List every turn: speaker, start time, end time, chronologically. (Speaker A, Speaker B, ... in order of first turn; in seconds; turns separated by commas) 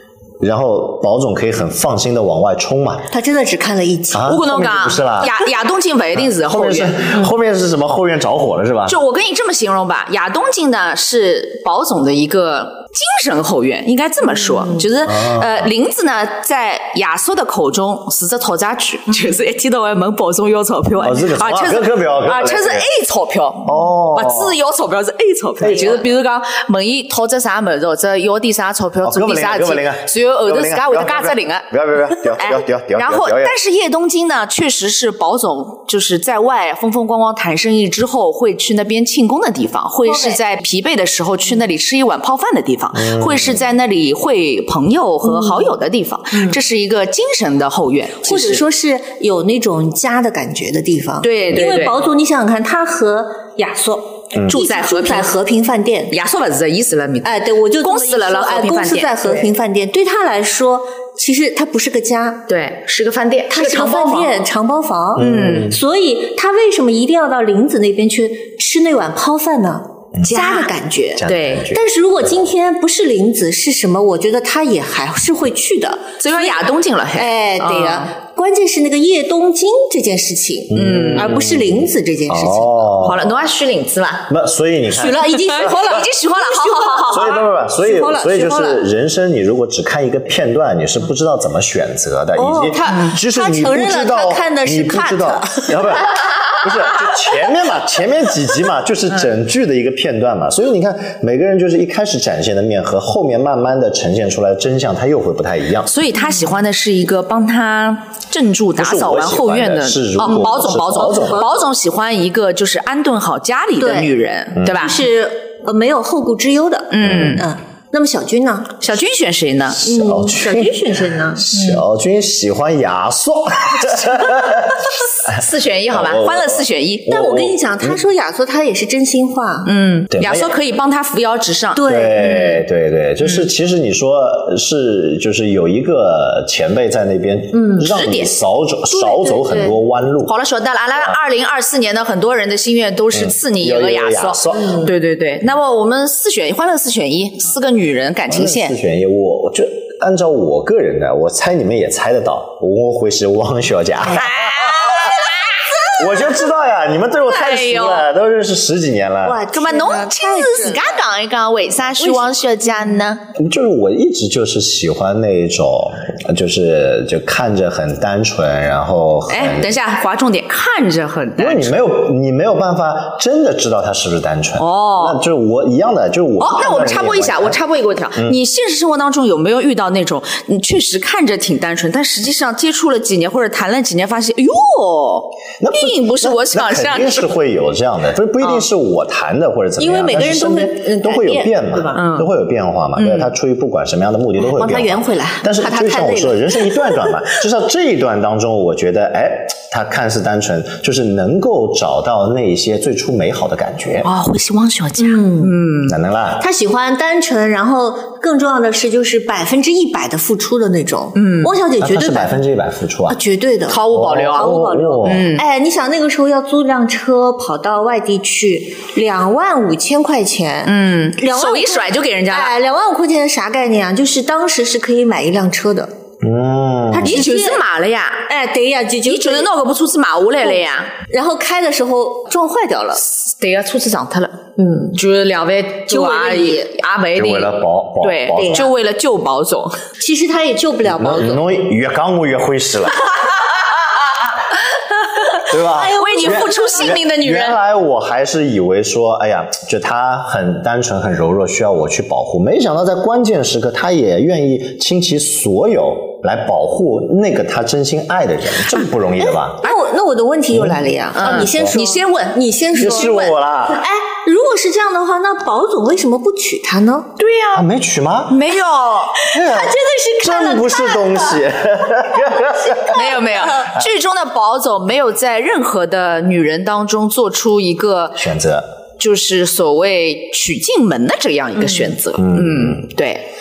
Speaker A: 0.4-3.1, Speaker B: 3.1-4.6, Speaker A: 4.1-5.4, Speaker C: 4.3-7.0, Speaker A: 6.2-9.0, Speaker C: 8.9-48.6, Speaker B: 14.5-14.8, Speaker A: 15.1-15.7, Speaker A: 21.0-22.9, Speaker A: 23.6-24.5, Speaker A: 25.6-26.1, Speaker A: 29.1-33.6, Speaker B: 40.0-40.4, Speaker A: 42.9-43.6, Speaker B: 45.2-45.7, Speaker B: 46.3-46.6, Speaker B: 48.2-56.1, Speaker C: 51.2-52.0, Speaker C: 54.5-55.3, Speaker C: 56.1-59.5, Speaker B: 57.2-62.5, Speaker C: 62.5-64.4, Speaker B: 63.5-83.0, Speaker A: 65.2-65.8, Speaker C: 65.2-65.7, Speaker C: 70.3-70.7, Speaker A: 71.2-71.8, Speaker C: 71.3-71.7, Speaker C: 76.2-78.1, Speaker A: 80.7-83.4, Speaker C: 80.8-81.4, Speaker C: 83.0-84.3, Speaker A: 84.3-85.7, Speaker B: 84.9-88.8, Speaker C: 85.1-87.4, Speaker A: 87.1-105.9, Speaker B: 92.4-96.2, Speaker C: 105.9-115.0, Speaker A: 108.8-111.4, Speaker B: 110.2-111.5, Speaker B: 113.8-118.8, Speaker C: 116.9-117.5, Speaker C: 118.8-119.9, Speaker A: 119.8-128.0, Speaker B: 119.8-121.8, Speaker C: 125.2-127.2, Speaker B: 127.1-129.7, Speaker C: 129.7-131.9, Speaker A: 130.1-130.5, Speaker B: 131.7-132.6, Speaker A: 131.8-140.3, Speaker B: 137.5-137.9, Speaker C: 137.8-138.3, Speaker B: 138.9-139.8, Speaker C: 140.3-148.8, Speaker A: 143.1-144.9, Speaker A: 148.3-155.3, Speaker C: 154.1-155.4, Speaker A: 155.8-159.4, Speaker C: 157.2-158.1, Speaker B: 159.2-161.0, Speaker C: 159.5-163.2, Speaker B: 162.0-162.4, Speaker A: 163.3-169.7, Speaker C: 169.3-171.9, Speaker A: 171.4-177.6, Speaker C: 174.6-175.2, Speaker C: 176.4-187.3, Speaker A: 185.6-204.1, Speaker B: 189.8-192.0, Speaker C: 191.9-192.3, Speaker C: 193.0-193.3, Speaker B: 194.4-197.2, Speaker C: 204.0-205.9, Speaker B: 205.0-205.6, Speaker A: 205.8-206.4, Speaker B: 206.4-212.4, Speaker C: 211.2-211.6, Speaker A: 211.8-213.2, Speaker B: 213.1-225.9, Speaker C: 213.7-215.4, Speaker A: 213.9-215.3, Speaker C: 220.7-222.5, Speaker A: 226.2-227.3, Speaker B: 226.9-227.6, Speaker C: 227.0-228.3, Speaker B: 228.3-229.5, Speaker C: 229.1-230.9, Speaker B: 230.4-233.0, Speaker C: 233.0-234.4, Speaker B: 234.6-235.0, Speaker C: 234.9-239.8, Speaker B: 235.9-236.7, Speaker A: 237.2-238.7, Speaker B: 238.4-238.7, Speaker B: 240.0-241.4, Speaker A: 240.8-243.1, Speaker A: 245.4-259.6, Speaker B: 245.6-247.0, Speaker C: 245.9-247.6, Speaker B: 259.2-267.1, Speaker A: 260.5-261.7, Speaker C: 261.1-263.3, Speaker A: 262.8-263.8, Speaker C: 267.2-267.7, Speaker A: 267.5-268.4, Speaker C: 268.3-269.3, Speaker A: 269.2-273.0, Speaker B: 269.3-271.4, Speaker B: 272.8-273.7, Speaker C: 272.8-278.2, Speaker A: 278.2-278.7, Speaker C: 279.0-283.2, Speaker A: 282.2-282.8